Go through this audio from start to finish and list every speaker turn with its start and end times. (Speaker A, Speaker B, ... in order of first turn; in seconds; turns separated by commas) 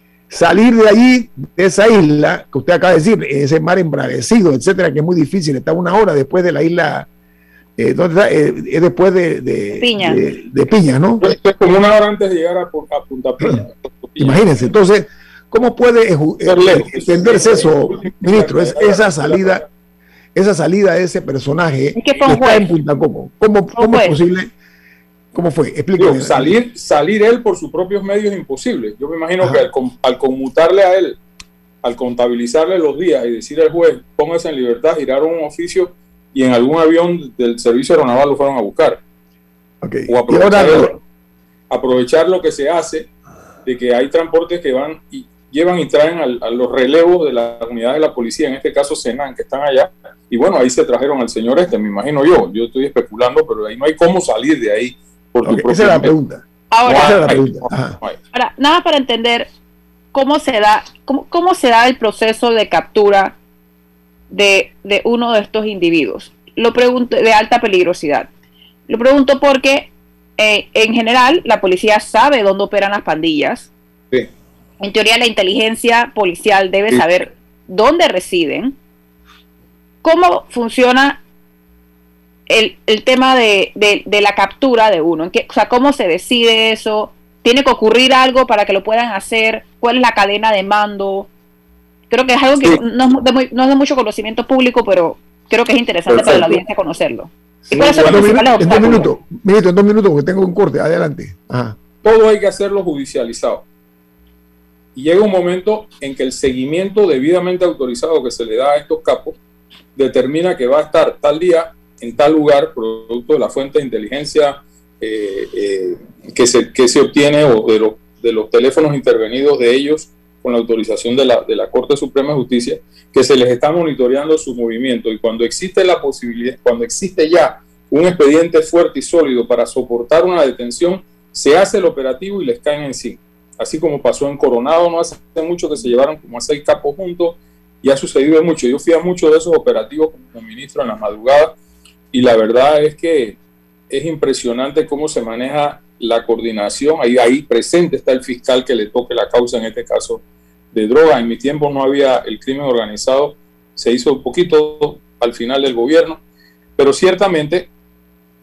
Speaker A: 0.3-7.1, Speaker A: 7.8-11.3, Speaker B: 9.8-10.2, Speaker C: 11.2-14.6, Speaker A: 14.2-19.6, Speaker C: 16.4-19.7, Speaker A: 20.4-24.5, Speaker B: 22.0-22.7, Speaker B: 23.7-24.2, Speaker A: 25.3-26.6, Speaker C: 26.0-31.2, Speaker A: 29.4-29.7, Speaker C: 31.8-39.0, Speaker A: 39.8-41.0, Speaker C: 40.1-41.0, Speaker C: 41.7-43.1, Speaker C: 43.6-56.1, Speaker A: 55.4-58.0, Speaker B: 56.7-57.2, Speaker C: 56.9-58.2, Speaker B: 58.3-59.5, Speaker B: 60.1-63.4, Speaker B: 64.3-68.3, Speaker B: 68.9-73.7, Speaker B: 74.8-78.8, Speaker B: 80.0-81.2, Speaker B: 82.5-91.3, Speaker B: 92.1-99.1, Speaker C: 96.1-96.6, Speaker A: 97.7-101.8, Speaker C: 97.7-98.8, Speaker C: 102.0-103.7, Speaker C: 105.0-109.4, Speaker C: 110.0-141.5, Speaker C: 142.1-143.4, Speaker C: 143.9-150.2, Speaker C: 150.7-156.2, Speaker C: 156.8-157.7